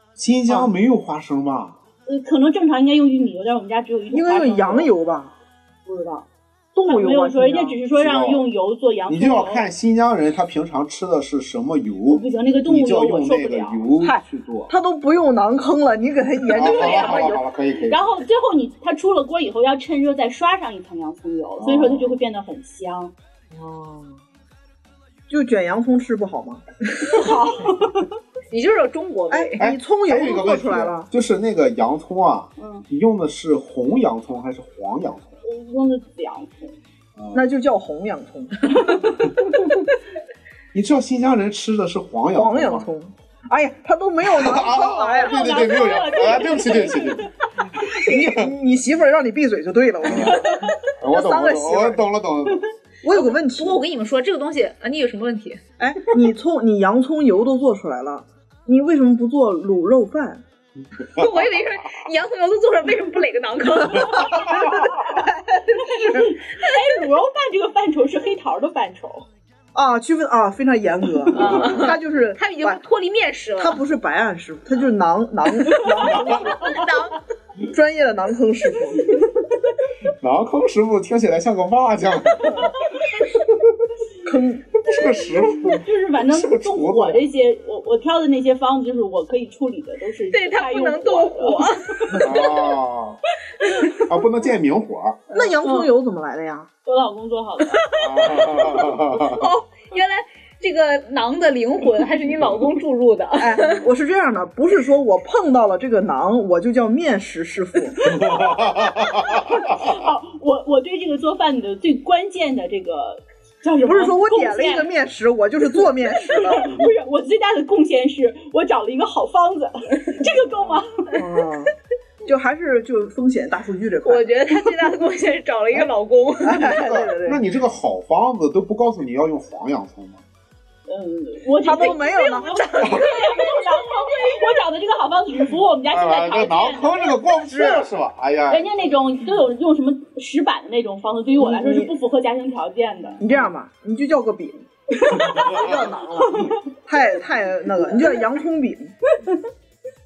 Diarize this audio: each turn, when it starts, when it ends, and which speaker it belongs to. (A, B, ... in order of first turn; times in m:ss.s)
0:00.2-0:01.8 A
0:00.5-0:00.7 B
0:02.1-0:04.9 C
0:04.1-0:05.4 B
0:05.8-0:06.3 C
0:06.7-0:07.8 B
0:06.8-0:09.7 C
0:07.9-0:08.4 A
0:09.1-0:14.7 A
0:12.1-0:13.9 C
0:14.0-0:17.4 B
0:16.5-0:18.2 A
0:16.6-0:23.1 C
0:21.6-0:22.2 A
0:23.5-0:24.2 B
0:25.3-0:27.2 B
0:27.0-0:28.1 C
0:28.5-0:29.6 D
0:29.3-0:31.1 B
0:29.6-0:35.4 A
0:32.6-0:32.9 C
0:35.4-0:36.8 C
0:37.2-0:37.4 A
0:37.3-0:39.0 B
0:40.7-0:42.9 A
0:42.3-0:45.6 B
0:44.3-0:48.5 A
0:45.1-0:47.3 C
0:47.9-0:52.0 B
0:50.0-0:52.6 A
0:53.0-0:53.8 B
0:53.1-0:55.6 D
0:55.8-1:00.4 B
1:01.1-1:04.8 D
1:04.3-1:06.3 B
1:06.0-1:09.2 C
1:09.7-1:12.8 B
1:11.3-1:13.8 D
1:13.6-1:16.8 B
1:16.6-1:17.2 D
1:17.6-1:19.2 B
1:20.2-1:22.7 A
1:24.2-1:24.7 B
1:24.8-1:27.2 A
1:25.5-1:32.3 C
1:30.3-1:32.5 D
1:32.2-1:33.2 A
1:33.9-1:35.2 A
1:35.3-1:36.7 B
1:35.6-1:35.9 C
1:36.8-1:37.9 C
1:37.7-1:43.8 D
1:38.0-1:39.4 A
1:43.4-1:48.2 B
1:48.0-1:54.9 C
1:48.2-1:49.4 A
1:53.8-1:56.8 B
1:56.1-2:01.2 C
2:01.2-2:01.7 B
2:02.2-2:04.3 B
2:04.0-2:06.8 D
2:06.4-2:07.4 B
2:06.6-2:10.2 A
2:10.9-2:17.7 C
2:11.6-2:12.6 B
2:12.2-2:14.4 D
2:15.9-2:18.9 A
2:18.5-2:23.2 C
2:21.4-2:21.9 B
2:23.2-2:28.9 B
2:25.0-2:25.6 C
2:26.2-2:26.6 C